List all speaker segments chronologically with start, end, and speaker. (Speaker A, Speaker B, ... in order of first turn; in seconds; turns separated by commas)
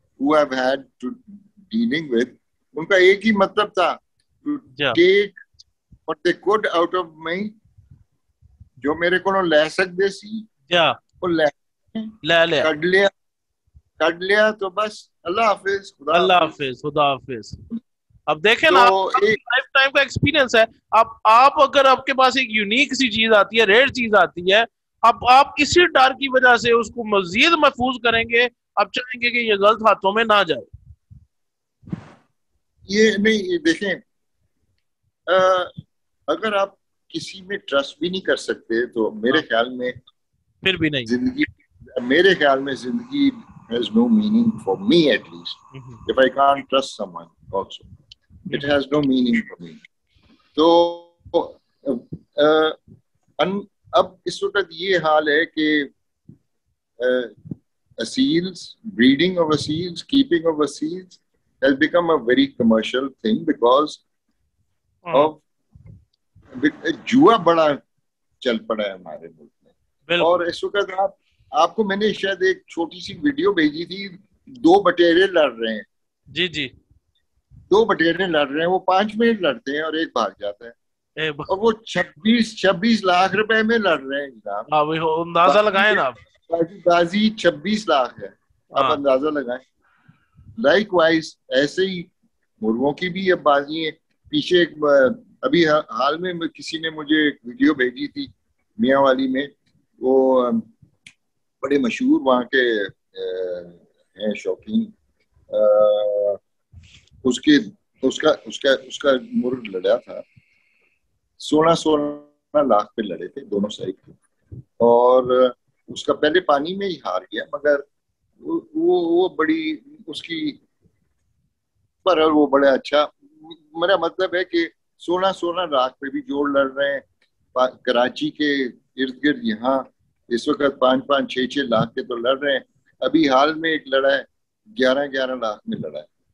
Speaker A: 0.2-5.3, Speaker A: 6.1-7.5, Speaker A: 8.8-10.5, Speaker B: 10.7-11.0, Speaker A: 11.2-13.1, Speaker B: 12.2-12.7, Speaker A: 14.0-16.5, Speaker B: 16.1-17.6, Speaker B: 18.3-30.7, Speaker A: 18.7-19.4, Speaker A: 32.9-34.0, Speaker A: 35.3-35.7, Speaker A: 36.3-40.0, Speaker B: 40.6-41.1, Speaker A: 41.1-47.9, Speaker B: 45.7-46.0, Speaker A: 48.5-49.8, Speaker A: 50.6-52.8, Speaker A: 53.4-55.9, Speaker A: 57.0-57.3, Speaker A: 58.0-64.0, Speaker B: 65.0-65.3, Speaker A: 65.1-65.4, Speaker A: 66.6-67.8, Speaker A: 68.4-69.6, Speaker B: 70.1-70.4, Speaker A: 70.2-75.9, Speaker B: 76.3-76.7, Speaker A: 77.7-80.8, Speaker B: 81.2-81.5, Speaker A: 81.5-84.7, Speaker B: 84.7-86.2, Speaker A: 85.4-89.7, Speaker A: 90.6-92.1, Speaker A: 92.6-100.7, Speaker A: 101.6-104.9, Speaker A: 105.5-106.4, Speaker A: 107.2-110.2, Speaker A: 111.4-114.2, Speaker A: 114.8-117.8, Speaker A: 118.4-120.6, Speaker A: 122.0-127.0, Speaker A: 127.5-136.1